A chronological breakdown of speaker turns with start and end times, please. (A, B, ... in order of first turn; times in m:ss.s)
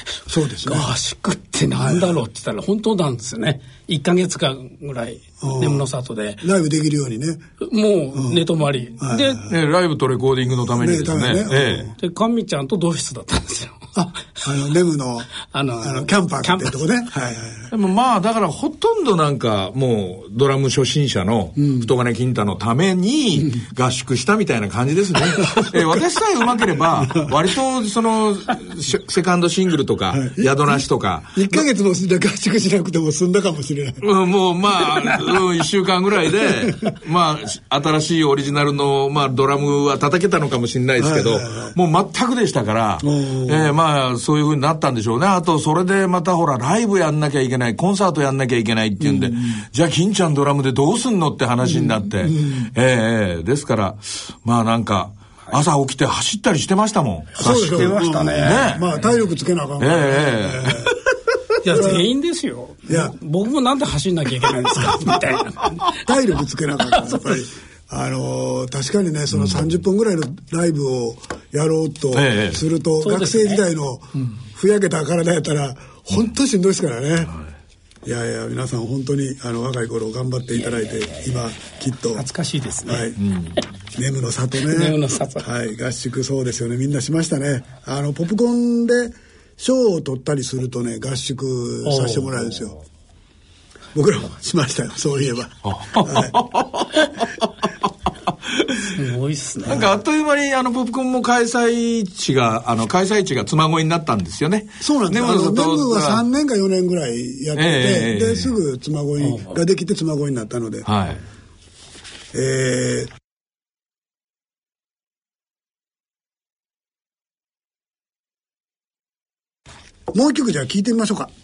0:00.3-0:00.9 A
0:00.6-0:06.4 B
0:01.8-0:02.1 A
0:05.4-0:05.8 A
0:06.4-0:07.4 A
0:07.6-0:09.5 B
0:08.1-0:08.4 A
0:09.0-0:09.5 A
0:09.5-0:11.9 C
0:10.8-0:11.9 A
0:12.0-0:13.8 B
0:13.9-0:15.3 A
0:15.4-0:16.8 B
0:15.8-0:17.7 A
0:17.7-0:31.6 C
0:25.3-0:26.0 A
0:27.0-0:27.3 A
0:30.1-0:34.0 A
0:34.0-0:59.0 C
0:34.8-0:35.4 A
0:36.3-0:36.9 A
0:41.0-0:41.7 A
0:43.0-0:43.7 A
0:49.0-0:49.6 A
0:51.6-0:52.7 A
0:57.4-1:00.9 A
0:57.4-0:58.7 B
0:59.8-1:01.0 C
1:01.6-1:05.8 B
1:01.7-1:02.0 A
1:02.9-1:03.1 A
1:06.0-1:17.3 A
1:06.9-1:07.2 B
1:09.3-1:09.6 C
1:12.1-1:12.6 C
1:13.0-1:13.6 B
1:18.0-1:22.2 A
1:22.1-1:23.1 B
1:22.8-1:23.2 A
1:23.2-1:23.6 C
1:24.0-1:32.8 A
1:24.6-1:25.5 B
1:31.8-1:32.3 B
1:33.9-1:36.3 A
1:35.6-1:37.3 C
1:38.5-1:38.8 C
1:38.9-1:39.9 B
1:39.6-1:46.2 C
1:44.8-1:50.9 A
1:47.5-1:48.5 C
1:49.2-1:49.6 B
1:50.8-1:51.2 C
1:52.3-1:53.1 A
2:00.1-2:01.3 A